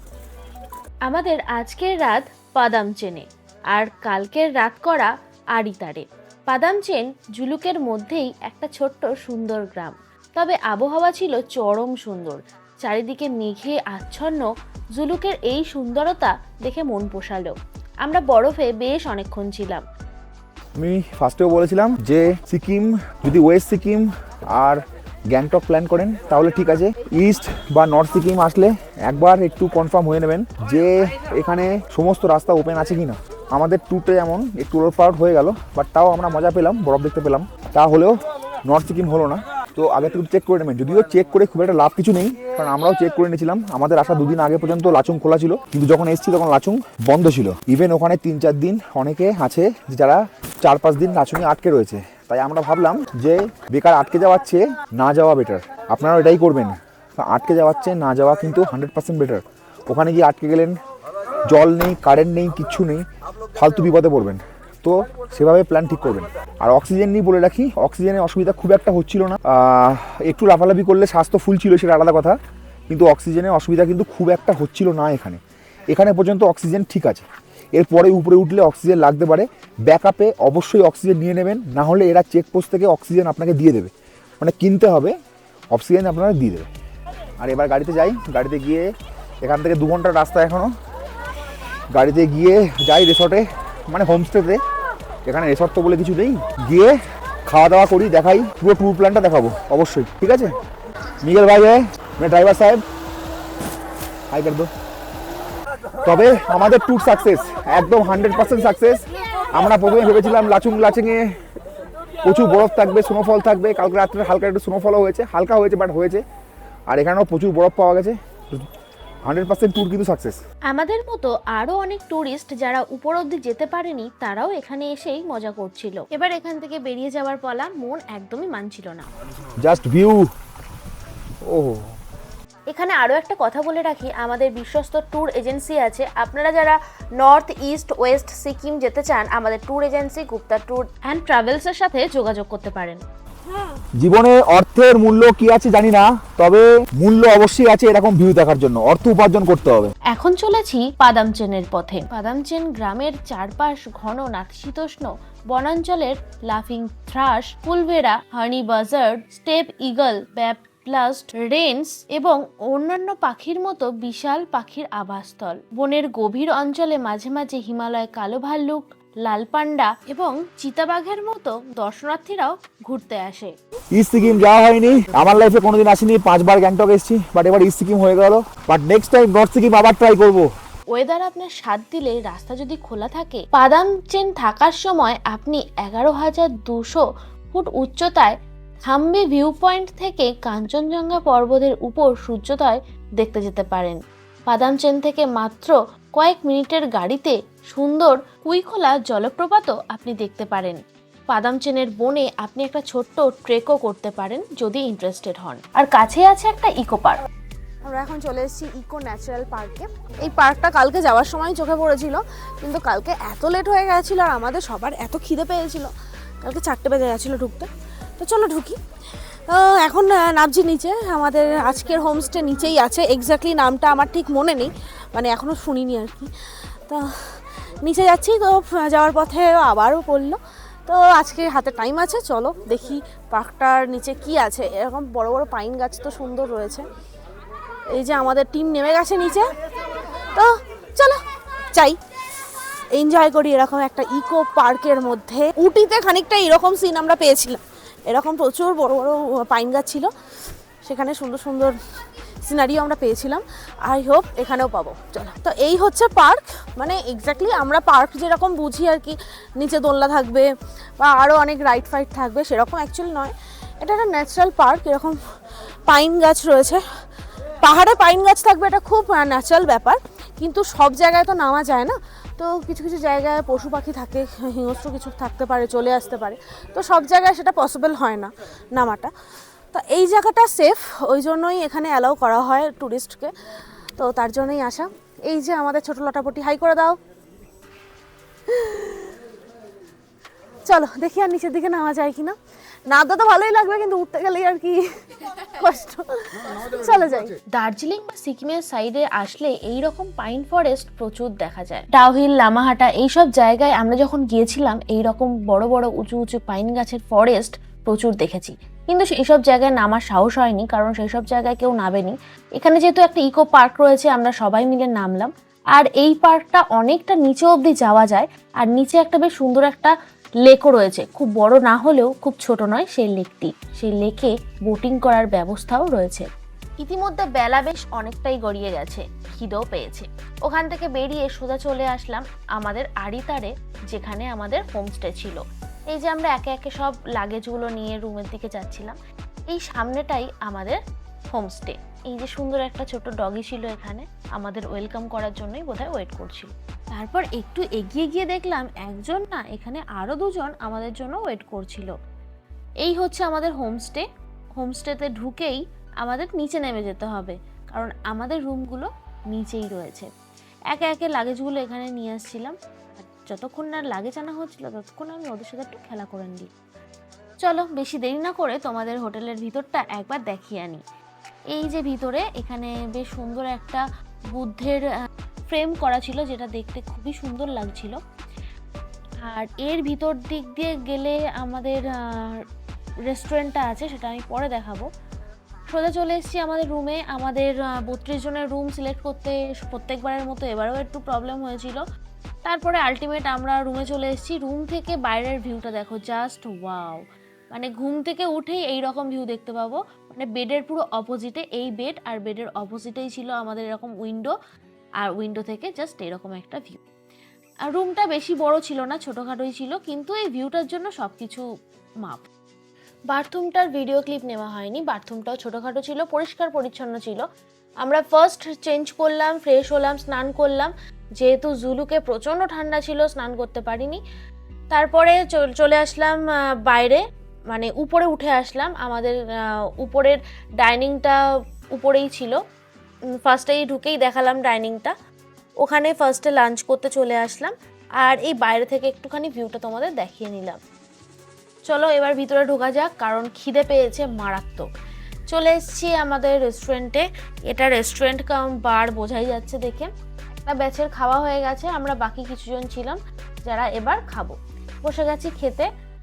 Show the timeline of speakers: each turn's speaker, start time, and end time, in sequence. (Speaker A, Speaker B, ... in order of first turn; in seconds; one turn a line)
Speaker A: 1.1-19.8
Speaker B: 20.8-60.8
Speaker B: 61.5-72.4
Speaker B: 72.9-85.1
Speaker B: 85.7-86.7
Speaker B: 87.4-88.9
Speaker B: 89.4-90.7
Speaker B: 91.9-94.6
Speaker B: 95.2-97.0
Speaker B: 97.5-100.5
Speaker B: 101.2-102.8
Speaker B: 104.3-104.7
Speaker B: 106.0-111.3
Speaker B: 112.2-116.2
Speaker B: 116.9-118.7
Speaker B: 119.2-120.4
Speaker A: 120.7-129.1
Speaker B: 129.6-130.3
Speaker B: 131.5-131.8
Speaker A: 132.7-143.0
Speaker B: 144.0-149.9
Speaker A: 150.1-173.5
Speaker B: 173.9-180.5
Speaker A: 180.9-188.3
Speaker A: 188.9-200.8
Speaker A: 201.3-207.2
Speaker C: 207.8-215.9
Speaker C: 216.4-218.8
Speaker C: 219.5-226.3
Speaker C: 226.9-236.8
Speaker C: 237.9-239.5
Speaker C: 240.3-242.0
Speaker C: 242.9-250.1
Speaker C: 250.8-251.7
Speaker C: 252.4-260.5
Speaker C: 261.0-265.2
Speaker C: 265.9-266.8
Speaker C: 267.6-279.1
Speaker A: 275.5-276.2
Speaker C: 279.7-283.3
Speaker C: 284.0-286.9
Speaker A: 286.4-286.9
Speaker C: 288.5-289.1
Speaker A: 290.7-291.1
Speaker C: 290.7-292.3
Speaker A: 291.8-292.3
Speaker C: 292.9-294.8
Speaker A: 293.3-294.8
Speaker C: 295.6-296.0
Speaker A: 296.6-326.3
Speaker C: 296.8-297.4
Speaker A: 326.8-339.0
Speaker A: 339.5-340.8
Speaker A: 341.3-351.9
Speaker A: 352.8-354.0
Speaker A: 354.6-360.1
Speaker A: 360.7-366.5
Speaker A: 367.4-370.8
Speaker A: 371.5-374.8
Speaker A: 375.5-378.0
Speaker A: 379.3-382.4
Speaker A: 383.1-384.8
Speaker A: 385.7-391.8
Speaker A: 392.4-404.3
Speaker A: 405.0-406.8
Speaker A: 407.6-411.4
Speaker A: 413.1-417.2
Speaker A: 417.8-424.0
Speaker A: 424.7-431.2
Speaker A: 431.7-432.4
Speaker A: 433.2-434.9
Speaker A: 435.6-440.6
Speaker A: 441.7-444.6
Speaker A: 445.3-455.7